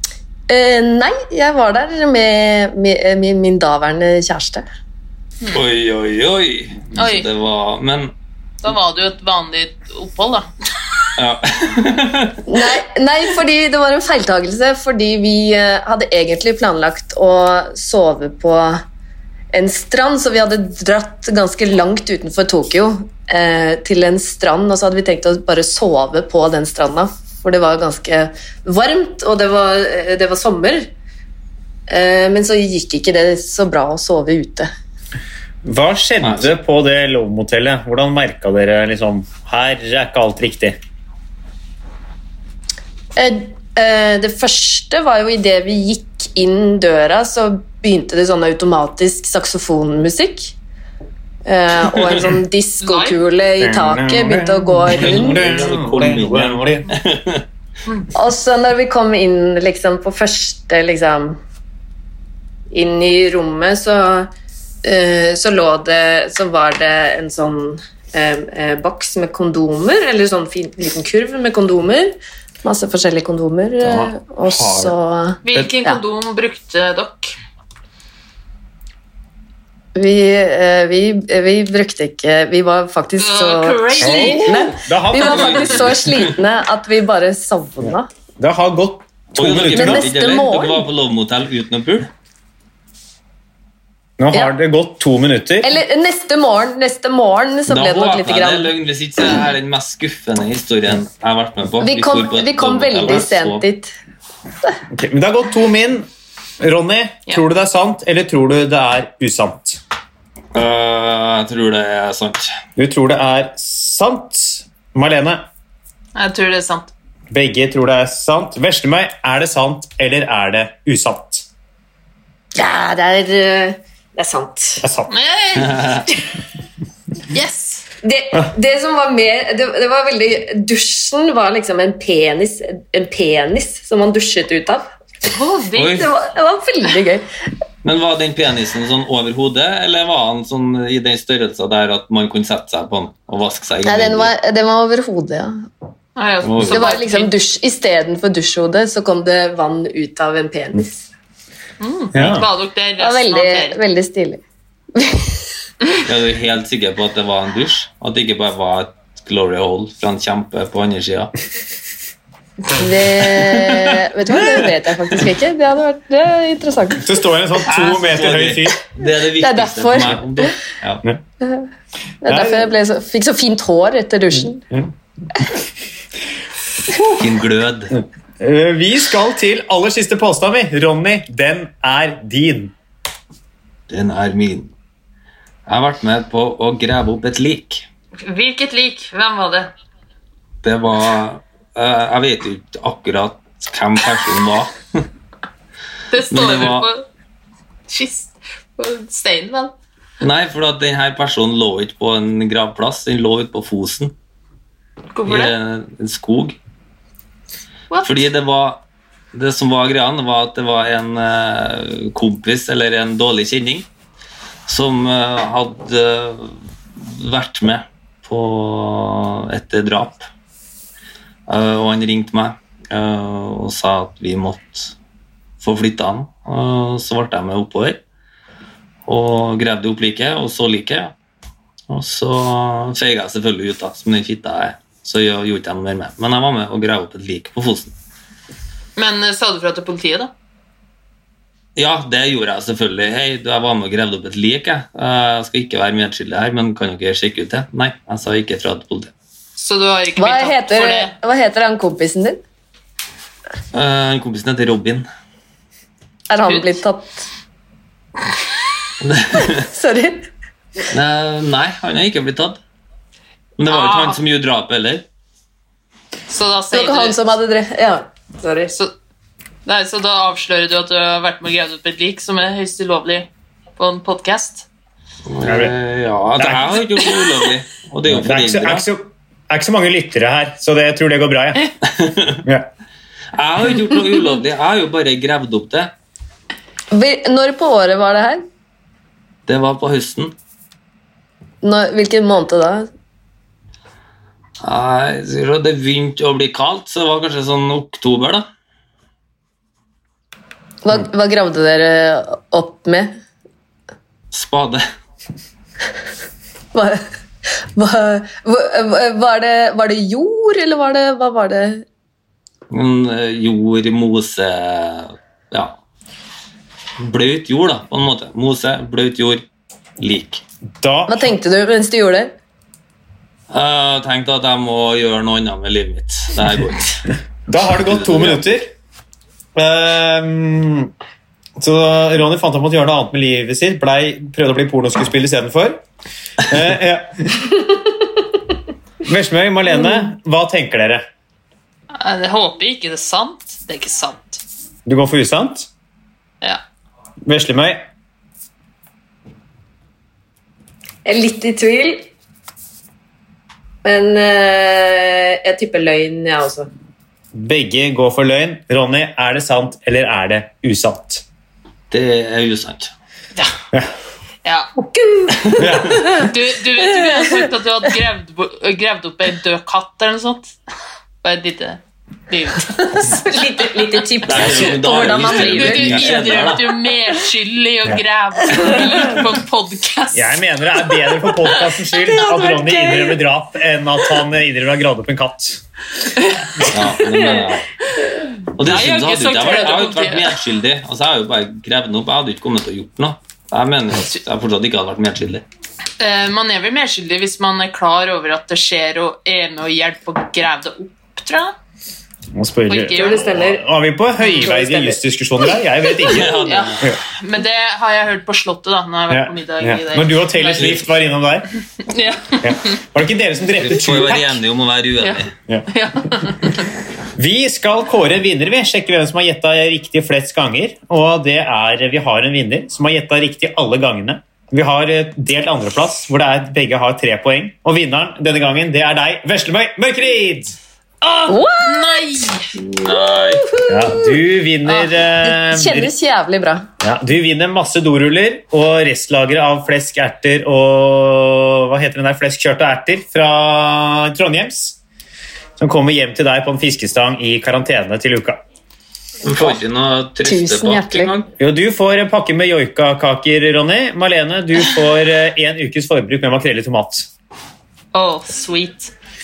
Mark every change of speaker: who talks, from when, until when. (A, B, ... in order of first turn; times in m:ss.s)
0:00.5-0:04.6 A
0:05.5-0:08.1 B
0:06.9-0:07.3 C
0:08.6-0:10.5 C
0:11.2-0:12.4 B
0:12.5-0:18.8 A
0:19.5-0:30.9 A
0:31.9-0:34.7 A
0:35.6-0:40.8 D
0:36.2-0:36.5 B
0:43.2-0:50.5 A
0:51.4-0:55.4 A
0:52.8-0:53.2 C
0:53.6-0:56.9 D
0:54.9-0:57.4 B
0:58.1-1:01.4 A
1:02.7-1:04.3 A
1:04.8-1:16.0 A
1:13.8-1:15.0 D
1:15.4-1:17.3 C
1:19.9-1:28.1 A
1:23.2-1:24.8 C
1:24.0-1:26.0 D
1:25.2-1:26.2 B
1:27.8-1:30.1 D
1:29.3-1:32.1 B
1:29.7-1:30.9 A
1:34.2-1:35.8 D
1:35.6-1:38.7 A
1:37.7-1:43.6 B
1:41.8-1:43.9 A
1:44.9-1:46.0 D
1:46.6-1:49.8 D
1:50.5-1:52.5 B
1:52.8-1:55.5 D
1:56.1-1:56.9 C
1:57.3-2:01.4 D
2:02.5-2:04.9 A
2:04.8-2:05.1 D
2:05.1-2:06.1 C
2:05.6-2:06.0 B
2:07.3-2:07.8 C
2:08.0-2:14.9 A
2:15.3-2:16.1 C
2:15.8-2:16.1 B
2:15.9-2:17.3 A
2:17.8-2:24.3 B
2:23.8-2:25.6 A
2:26.2-2:27.3 C
2:26.4-2:26.9 B
2:26.6-2:31.0 A
2:31.8-2:33.8 C
2:32.1-2:32.5 D
2:32.2-2:32.4 B
2:33.0-2:34.4 A
2:34.9-2:35.4 A
2:36.0-2:41.3 B
2:42.7-2:47.1 A
2:47.0-2:48.8 D
2:47.6-2:51.0 B
2:49.4-2:50.5 A
2:51.4-2:51.7 A
2:52.2-2:54.6 A
2:52.2-2:52.7 D
2:57.0-2:57.9 B
2:57.9-3:02.7 D
3:03.9-3:04.7 B
3:05.7-3:07.8 B
3:08.2-3:09.7 C
3:10.6-3:15.0 B
3:16.1-3:17.0 C
3:16.3-3:16.9 B
3:17.9-3:19.7 C
3:20.2-3:24.1 B
3:25.1-3:25.5 C
3:25.3-3:26.6 B
3:27.9-3:28.2 C
3:28.0-3:28.8 B
3:29.3-3:33.9 B
3:34.6-3:40.3 B
3:41.5-3:44.9 B
3:45.6-3:48.0 B
3:49.0-3:51.1 B
3:51.9-3:57.9 B
3:59.0-4:00.3 C
4:01.8-4:09.1 B
4:09.6-4:11.1 C
4:10.2-4:12.4 A
4:13.7-4:15.1 B
4:16.3-4:17.2 A
4:16.5-4:16.7 C
4:19.0-4:19.6 B
4:19.6-4:20.3 A
4:20.9-4:22.6 B
4:23.6-4:25.0 B
4:23.7-4:24.2 C
4:26.3-4:27.3 C
4:26.7-4:28.7 A
4:29.6-4:34.7 C
4:35.2-4:38.8 B
4:35.4-4:35.7 D
4:36.4-4:36.8 D
4:38.1-4:41.8 D
4:41.9-4:42.4 B
4:42.4-4:42.7 D
4:43.3-4:45.9 B
4:46.9-4:48.4 A
4:49.5-4:50.3 B
4:51.6-4:52.9 A
4:54.6-4:58.4 B
5:00.8-5:03.1 A
5:04.3-5:04.8 B
5:06.7-5:07.0 A
5:07.7-5:11.8 A
5:12.7-5:15.8 B
5:17.0-5:19.4 B
5:20.0-5:20.4 B
5:20.8-5:21.3 D
5:21.1-5:22.3 A
5:23.5-5:27.0 B
5:27.5-5:28.7 D
5:27.7-5:28.4 B
5:29.5-5:30.9 D
5:31.6-5:35.8 D
5:36.4-5:37.6 D
5:39.0-5:41.0 D
5:41.9-5:44.4 C
5:44.8-5:45.7 D
5:47.2-5:47.8 D
5:51.0-5:52.1 A
5:53.8-5:56.7 A
5:57.3-6:01.2 D
6:01.9-6:02.9 B
6:04.4-6:04.7 C
6:04.8-6:07.3 A
6:05.6-6:06.1 D
6:06.2-6:10.6 C
6:11.2-6:13.4 C
6:12.7-6:16.4 A
6:14.2-6:16.7 B
6:15.1-6:23.2 C
6:20.1-6:25.6 D
6:22.1-6:22.6 A
6:26.1-6:26.8 C
6:26.7-6:27.7 B
6:28.0-6:30.4 C
6:28.6-6:35.4 B
6:36.0-6:41.6 C
6:42.3-6:47.0 D
6:42.7-6:43.4 C
6:42.9-6:43.6 A
6:44.2-6:44.5 C
6:44.4-6:45.0 A
6:46.0-6:50.9 C
6:46.0-6:46.8 B
6:49.1-6:51.5 D
6:50.5-6:50.8 B
6:51.9-6:52.8 C
6:52.4-6:54.4 D
6:53.6-6:55.3 B
6:55.0-6:56.7 C
6:57.1-7:10.6 D
7:11.0-7:12.5 C
7:11.3-7:12.2 A
7:12.6-7:13.5 B
7:13.1-7:16.7 A
7:13.7-7:15.9 D
7:16.8-7:24.8 D
7:25.6-7:28.4 D
7:29.2-7:31.3 B
7:30.2-7:31.1 A
7:31.4-7:37.1 D
7:37.9-7:38.9 C